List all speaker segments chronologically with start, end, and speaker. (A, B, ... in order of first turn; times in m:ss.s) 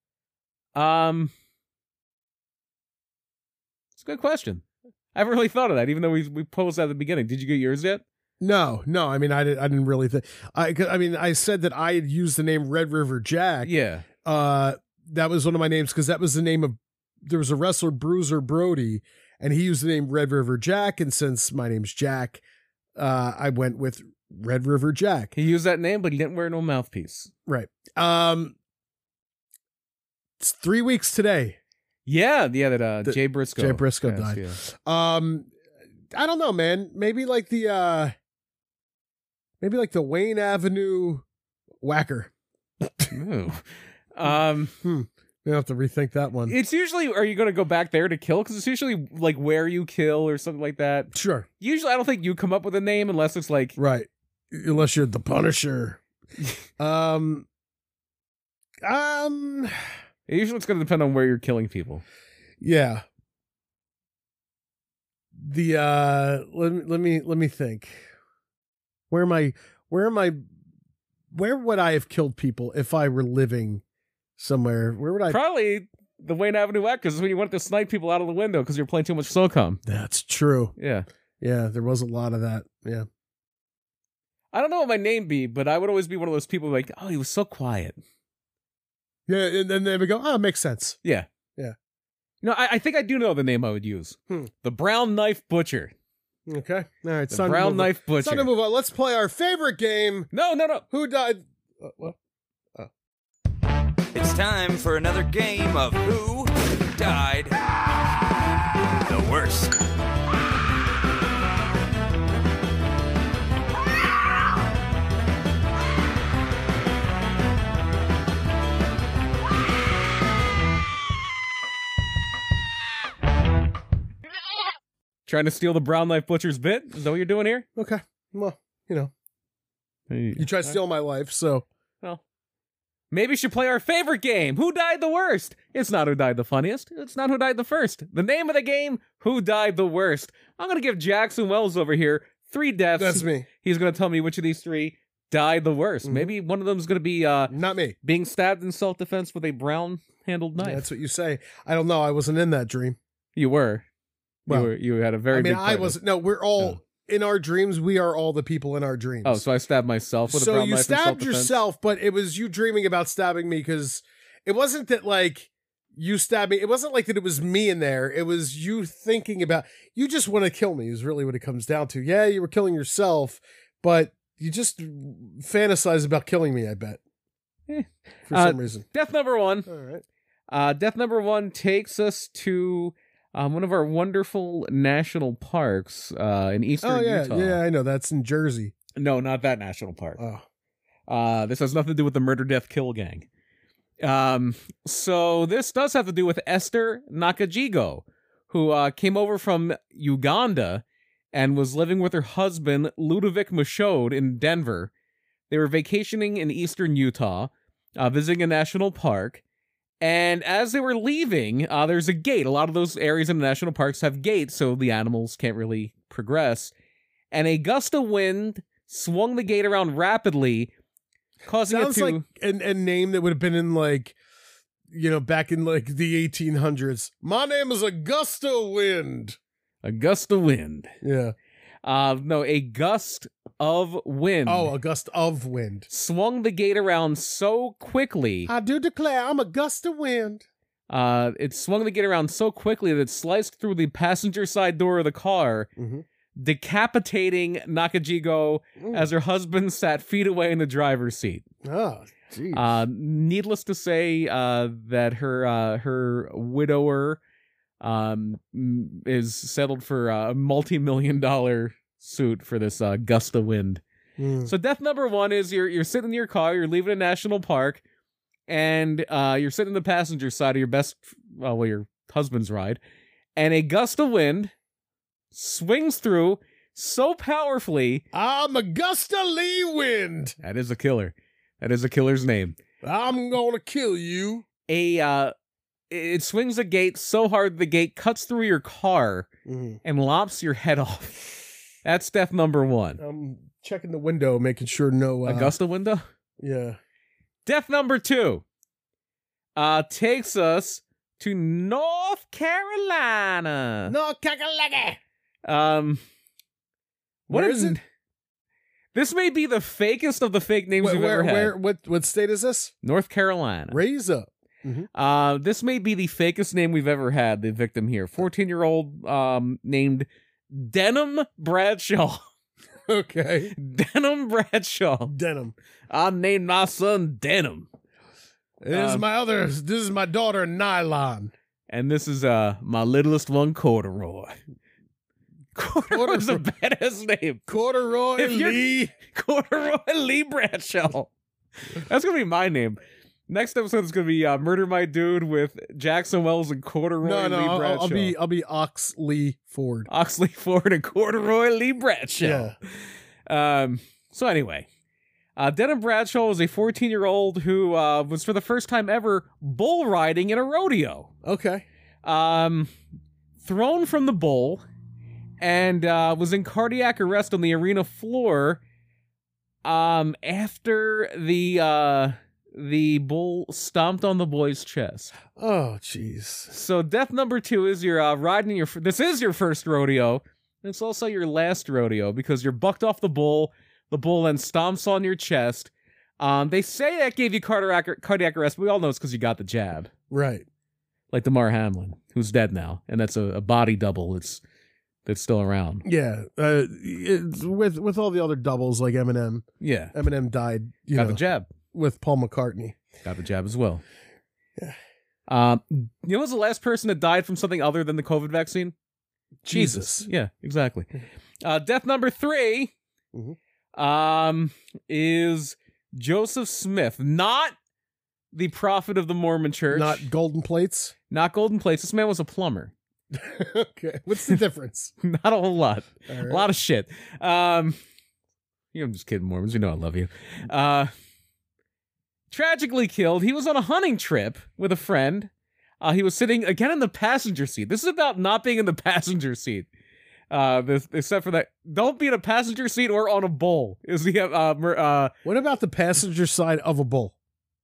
0:00.8-0:01.3 A
0:04.0-0:04.6 A
0:05.1-0:08.0 A
0:08.4-0:13.7 B
0:13.6-0:14.1 A
0:14.2-0:22.4 B
0:23.0-0:25.3 B
0:25.3-0:27.3 A
0:27.5-0:28.6 B
0:30.4-0:31.6 B
0:32.1-0:34.6 A
0:33.0-0:35.5 B
0:36.1-0:38.1 B
0:39.6-0:41.2 B
0:41.8-0:43.1 B
0:43.1-0:44.7 A
0:44.2-0:46.6 B
0:46.5-0:53.8 A
0:51.1-0:51.5 B
0:53.8-0:56.0 B
0:56.8-0:57.5 B
0:58.8-0:59.7 B
1:00.3-1:02.0 A
1:02.6-1:03.0 B
1:05.4-1:08.0 B
1:09.1-1:10.4 B
1:11.3-1:13.8 B
1:14.4-1:15.4 B
1:15.3-1:19.8 A
1:19.9-1:20.7 B
1:20.8-1:21.0 A
1:21.4-1:23.1 B
1:24.5-1:28.0 A
1:29.3-1:31.0 B
1:32.4-1:35.9 A
1:36.5-1:40.3 B
1:37.3-1:38.5 A
1:40.3-1:40.9 A
1:40.9-1:42.2 B
1:44.1-1:47.6 C
1:49.1-1:49.8 C
2:05.3-2:07.7 A
2:07.8-2:09.1 B
2:10.1-2:10.8 A
2:10.4-2:11.7 B
2:13.1-2:30.9 A
2:23.0-2:23.5 B
2:26.0-2:26.3 B
2:27.5-2:28.0 B
2:30.6-2:33.0 B
2:33.4-2:33.8 A
2:34.5-2:36.0 A
2:35.3-2:39.4 B
2:39.2-2:41.5 A
2:40.3-2:57.0 B
2:57.7-2:59.7 A
2:58.3-2:58.8 B
2:59.7-3:00.0 B
3:00.5-3:07.6 A
3:06.8-3:08.8 B
3:09.0-3:10.2 A
3:10.2-3:10.4 B
3:11.1-3:13.3 A
3:14.0-3:24.9 A
3:25.5-3:29.4 A
3:30.0-3:36.7 A
3:37.3-3:40.7 A
3:41.4-3:42.2 A
3:41.7-3:44.2 B
3:44.9-3:49.4 B
3:49.8-3:50.9 A
3:51.0-3:51.3 B
3:51.8-3:54.7 A
3:54.5-3:55.9 B
3:55.9-3:58.5 A
3:58.5-4:00.4 B
4:00.9-4:05.7 A
4:05.8-4:06.0 B
4:06.4-4:11.4 A
4:08.8-4:09.1 B
4:11.6-4:12.8 B
4:12.5-4:17.2 A
4:17.8-4:23.8 A
4:24.2-4:24.5 B
4:24.4-4:27.8 A
4:28.5-4:32.8 A
4:33.4-4:34.5 A
4:35.3-4:38.0 A
4:38.1-4:40.4 B
4:40.4-4:42.6 A
4:42.8-4:44.4 B
4:44.7-4:45.3 A
4:45.9-4:49.3 A
4:49.5-4:49.8 B
4:49.8-4:51.3 A
4:51.8-4:53.0 A
4:53.0-4:55.5 B
4:55.2-4:56.0 A
4:56.4-4:56.8 B
4:57.5-4:58.4 A
4:59.6-5:04.0 A
5:03.9-5:05.0 B
5:05.4-5:06.0 A
5:07.3-5:07.8 B
5:07.3-5:07.8 A
5:08.9-5:11.6 A
5:10.8-5:12.7 B
5:12.8-5:13.8 A
5:13.7-5:14.9 B
5:14.9-5:22.2 A
5:22.9-5:23.6 B
5:23.5-5:25.1 A
5:25.1-5:25.6 B
5:25.9-5:27.7 A
5:28.6-5:31.3 B
5:28.7-5:29.0 A
5:31.7-5:34.4 A
5:35.6-5:37.5 A
5:35.9-5:36.4 B
5:37.5-5:38.9 B
5:38.2-5:41.1 A
5:41.7-5:48.2 A
5:47.0-5:49.9 B
5:49.9-5:52.6 A
5:52.2-5:52.6 B
5:53.3-5:54.7 A
5:55.4-6:01.1 A
6:01.2-6:01.6 B
6:02.0-6:02.7 A
6:03.4-6:04.6 A
6:05.4-6:08.6 A
6:09.6-6:15.2 A
6:15.4-6:16.5 B
6:16.5-6:29.9 A
6:30.1-6:30.4 B
6:31.1-6:34.4 A
6:35.0-6:35.8 A
6:35.8-6:41.2 B
6:39.6-6:39.9 A
6:40.9-6:41.5 A
6:41.7-6:42.8 B
6:43.0-6:43.8 A
6:45.3-6:48.8 A
6:49.4-6:50.1 B
6:49.5-6:50.9 A
6:51.4-6:52.7 A
6:53.8-6:57.6 A
6:58.3-7:00.0 A
6:59.7-7:00.9 B
7:01.1-7:02.7 A
7:03.1-7:04.9 B
7:05.0-7:07.8 A
7:06.1-7:06.5 B
7:08.7-7:10.9 A
7:12.3-7:15.3 A
7:15.8-7:19.7 A
7:20.3-7:25.1 A
7:25.2-7:27.2 B